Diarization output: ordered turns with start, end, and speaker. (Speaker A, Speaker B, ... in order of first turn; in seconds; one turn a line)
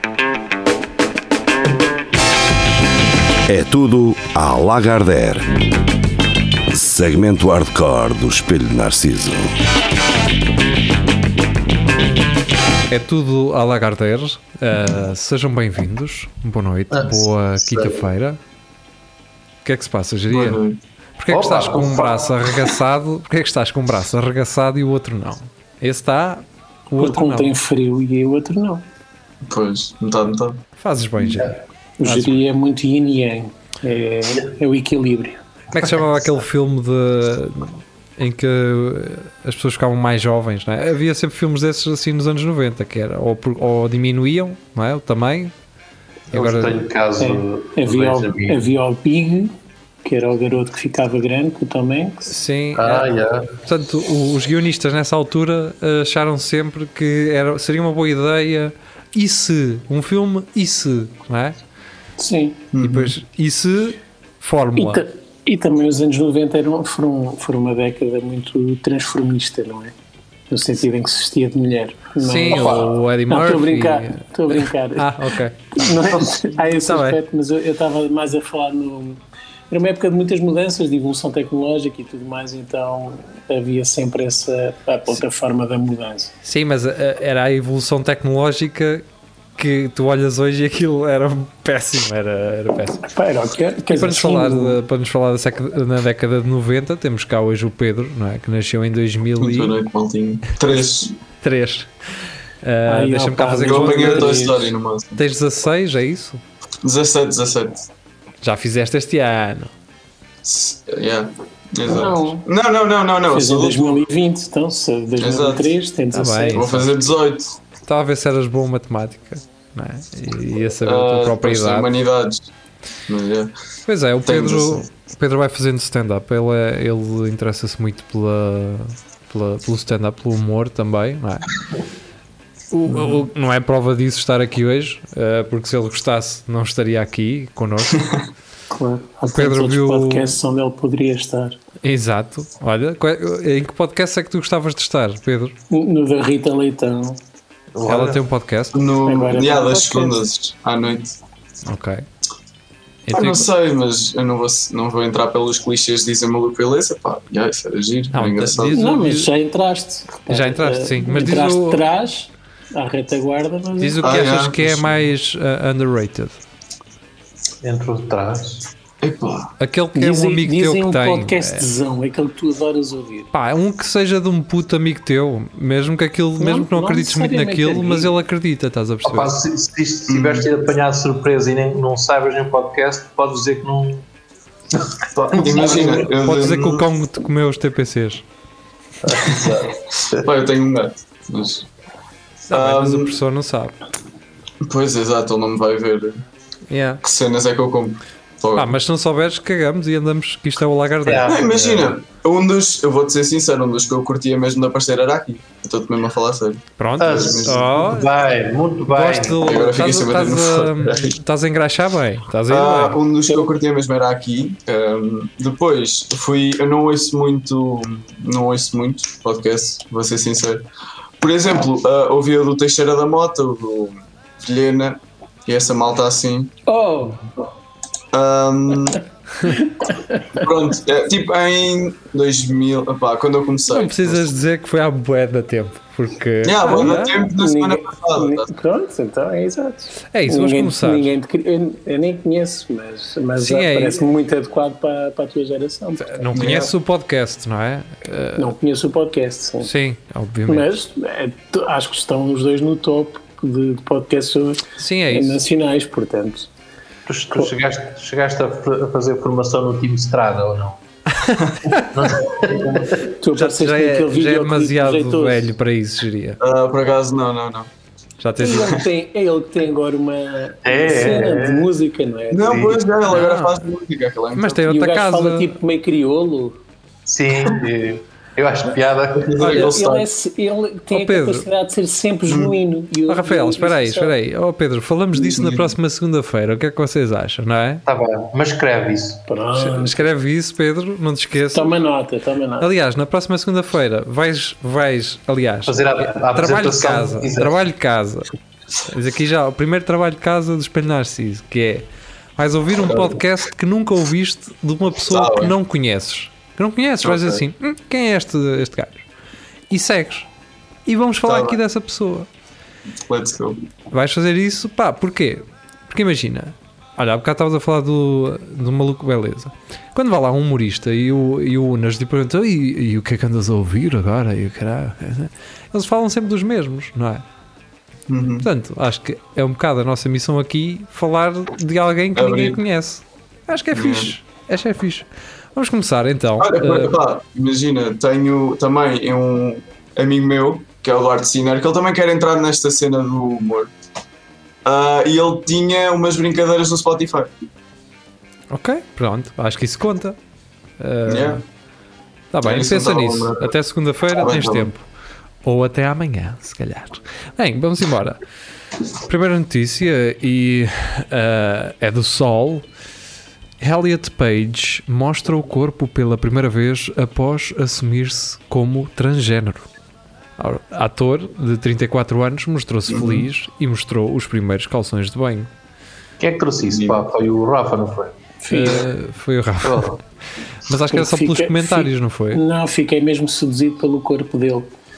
Speaker A: 3.5-5.5
Speaker A: 6.7-9.5
Speaker B: 12.9-18.4
Speaker C: 16.9-18.0
Speaker B: 19.6-20.6
Speaker D: 20.3-20.8
Speaker B: 21.2-27.5
Speaker C: 21.3-22.5
Speaker E: 27.0-28.8
Speaker D: 29.4-30.6
Speaker B: 30.8-32.4
Speaker E: 32.0-35.4
Speaker B: 35.7-45.5
Speaker C: 46.3-48.7
Speaker B: 46.3-46.8
Speaker E: 47.2-49.5
Speaker E: 50.0-52.4
Speaker B: 52.3-53.1
Speaker C: 52.7-53.6
Speaker B: 53.6-61.5
Speaker E: 62.2-62.6
Speaker D: 62.7-63.1
Speaker B: 62.8-65.0
Speaker E: 64.8-69.9
Speaker E: 70.5-75.1
Speaker B: 72.2-75.6
Speaker C: 72.5-73.0
Speaker E: 75.7-86.3
Speaker B: 76.8-77.2
Speaker B: 86.4-89.0
Speaker B: 89.6-93.1
Speaker E: 93.1-94.8
Speaker B: 93.9-99.8
Speaker D: 99.4-101.1
Speaker B: 101.4-101.9
Speaker B: 102.6-104.5
Speaker E: 102.9-104.7
Speaker D: 103.6-105.2
Speaker B: 105.2-106.4
Speaker D: 106.8-107.9
Speaker B: 108.4-109.7
Speaker D: 110.4-114.0
Speaker E: 111.8-112.5
Speaker E: 113.3-116.7
Speaker D: 115.2-115.7
Speaker B: 116.1-116.9
Speaker D: 116.5-117.5
Speaker B: 117.8-121.9
Speaker D: 120.8-122.5
Speaker D: 123.1-123.5
Speaker B: 123.9-131.5
Speaker D: 124.2-124.9
Speaker B: 132.7-138.2
Speaker E: 138.7-141.6
Speaker B: 139.3-140.3
Speaker B: 141.8-145.5
Speaker E: 145.7-147.2
Speaker C: 147.7-148.2
Speaker B: 147.8-148.8
Speaker D: 148.7-151.2
Speaker E: 149.1-150.2
Speaker B: 151.7-152.0
Speaker B: 153.1-153.5
Speaker D: 153.1-158.8
Speaker B: 158.1-159.3
Speaker E: 158.7-164.1
Speaker B: 160.3-161.8
Speaker B: 163.8-166.4
Speaker D: 164.0-164.9
Speaker C: 167.6-168.6
Speaker D: 169.0-169.5
Speaker B: 169.6-171.6
Speaker E: 169.9-173.3
Speaker B: 173.3-179.3
Speaker E: 176.4-178.1
Speaker C: 179.0-184.1
Speaker D: 180.1-180.5
Speaker C: 184.7-186.1
Speaker D: 185.1-186.8
Speaker B: 185.6-188.2
Speaker C: 189.0-190.2
Speaker D: 189.1-191.7
Speaker B: 192.5-193.8
Speaker D: 192.5-193.1
Speaker D: 194.6-196.2
Speaker B: 196.7-197.0
Speaker D: 197.0-198.7
Speaker B: 198.6-201.9
Speaker C: 201.1-201.5
Speaker D: 201.2-207.7
Speaker B: 206.8-208.1
Speaker C: 207.0-209.6
Speaker B: 208.9-213.0
Speaker D: 209.4-211.2
Speaker D: 212.5-220.7
Speaker D: 221.2-226.5
Speaker E: 226.7-227.2
Speaker D: 228.1-229.0
Speaker E: 229.4-230.4
Speaker D: 230.3-234.3
Speaker B: 233.7-237.2
Speaker D: 236.4-238.5
Speaker E: 236.8-246.2
Speaker B: 240.1-241.1
Speaker B: 243.4-244.0
Speaker B: 246.0-248.5
Speaker D: 246.3-246.7
Speaker E: 248.4-249.7
Speaker B: 249.6-250.7
Speaker E: 250.5-256.5
Speaker B: 254.8-255.4
Speaker C: 257.1-260.8
Speaker B: 261.2-261.8
Speaker C: 261.9-263.0
Speaker E: 263.0-265.5
Speaker B: 263.3-266.4
Speaker D: 266.4-267.7
Speaker B: 268.2-268.8
Speaker E: 268.4-272.6
Speaker C: 270.6-271.7
Speaker D: 272.3-274.6
Speaker C: 272.4-272.8
Speaker B: 273.1-273.6
Speaker B: 274.4-275.5
Speaker E: 274.6-276.6
Speaker C: 277.1-279.5
Speaker D: 279.1-280.1
Speaker B: 279.4-279.7
Speaker E: 279.4-284.1
Speaker B: 280.9-281.5
Speaker D: 282.3-282.5
Speaker B: 283.1-287.8
Speaker D: 285.2-285.7
Speaker C: 287.8-289.2
Speaker E: 289.3-290.1
Speaker B: 289.6-291.7
Speaker E: 291.5-292.7
Speaker B: 292.6-298.3
Speaker C: 295.6-297.6
Speaker B: 298.8-301.9
Speaker B: 302.4-309.0
Speaker D: 302.8-303.2
Speaker D: 305.1-305.5
Speaker D: 307.0-307.4
Speaker B: 309.7-310.3
Speaker B: 310.9-312.3
Speaker D: 311.2-311.6
Speaker D: 313.0-313.6
Speaker B: 313.9-327.2
Speaker D: 328.1-328.5
Speaker B: 328.4-336.9
Speaker D: 332.1-332.6
Speaker D: 333.7-334.1
Speaker D: 336.4-343.7
Speaker D: 344.6-347.3
Speaker B: 348.5-350.1
Speaker B: 350.8-351.4
Speaker D: 351.1-351.4
Speaker B: 352.3-354.8
Speaker D: 352.4-353.5
Speaker D: 354.1-354.7
Speaker B: 355.4-358.2
Speaker B: 359.0-362.6
Speaker B: 363.6-369.6
Speaker B: 370.4-375.5
Speaker D: 372.9-373.3
Speaker C: 376.2-378.1
Speaker D: 376.7-377.0
Speaker E: 378.4-378.9
Speaker B: 378.5-380.0
Speaker C: 379.6-380.0
Speaker B: 380.6-382.4
Speaker E: 380.9-384.7